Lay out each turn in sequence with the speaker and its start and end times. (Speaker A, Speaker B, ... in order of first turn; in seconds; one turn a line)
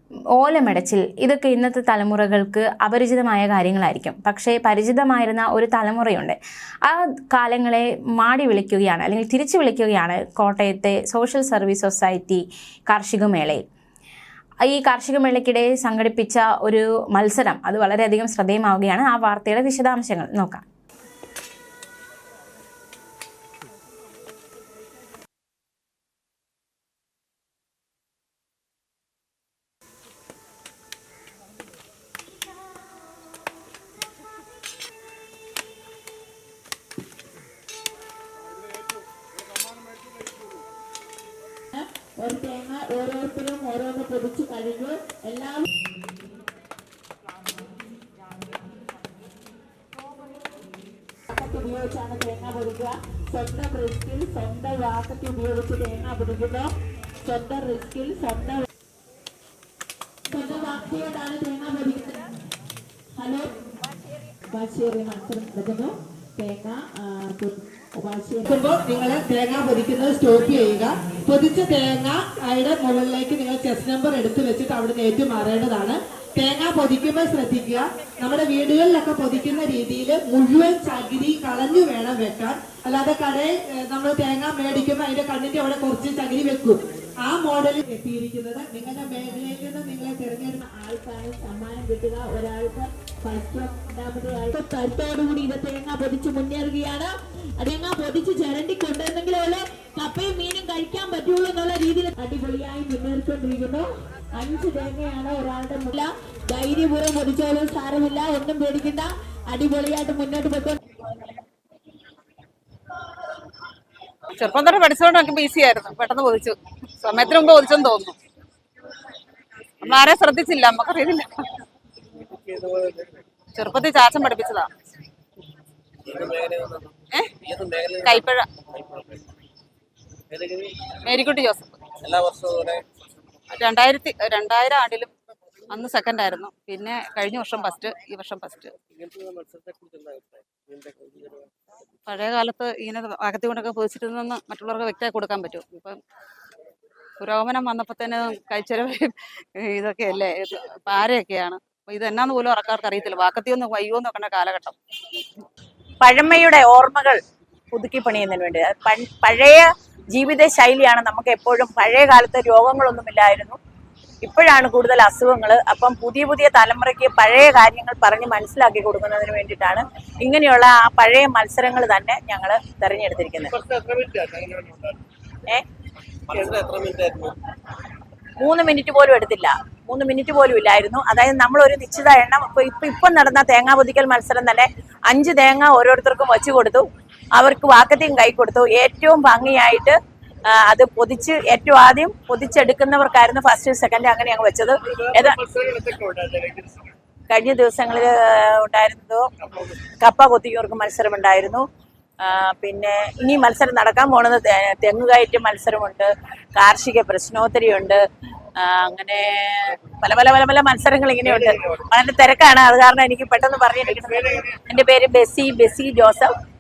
Speaker A: 0.3-13.6
Speaker A: 14.6-20.6
Speaker B: 41.7-45.7
Speaker B: 51.3-56.7
Speaker B: 57.2-58.7
Speaker B: 60.3-62.3
Speaker B: 63.1-63.6
Speaker B: 64.5-68.5
Speaker C: 68.5-90.6
Speaker B: 90.6-110.8
Speaker D: 114.3-118.2
Speaker D: 119.8-121.4
Speaker E: 122.3-123.1
Speaker D: 123.5-124.7
Speaker E: 126.0-126.9
Speaker D: 127.1-127.4
Speaker E: 127.4-128.2
Speaker D: 128.0-128.4
Speaker E: 128.8-129.1
Speaker E: 130.3-130.8
Speaker D: 131.0-131.9
Speaker E: 132.0-132.8
Speaker D: 133.5-135.1
Speaker D: 135.7-138.7
Speaker E: 138.9-141.4
Speaker D: 142.1-146.0
Speaker D: 147.2-154.8
Speaker F: 156.0-157.2
Speaker F: 157.7-163.6
Speaker F: 164.2-173.5
Speaker E: 173.5-175.0
Speaker E: 176.3-177.4
Speaker F: 178.4-190.0
Speaker F: 190.5-195.4
Speaker E: 195.4-196.9
Speaker F: 197.3-199.2
Speaker F: 200.0-201.6
Speaker F: 202.2-208.0
Speaker F: 208.6-216.3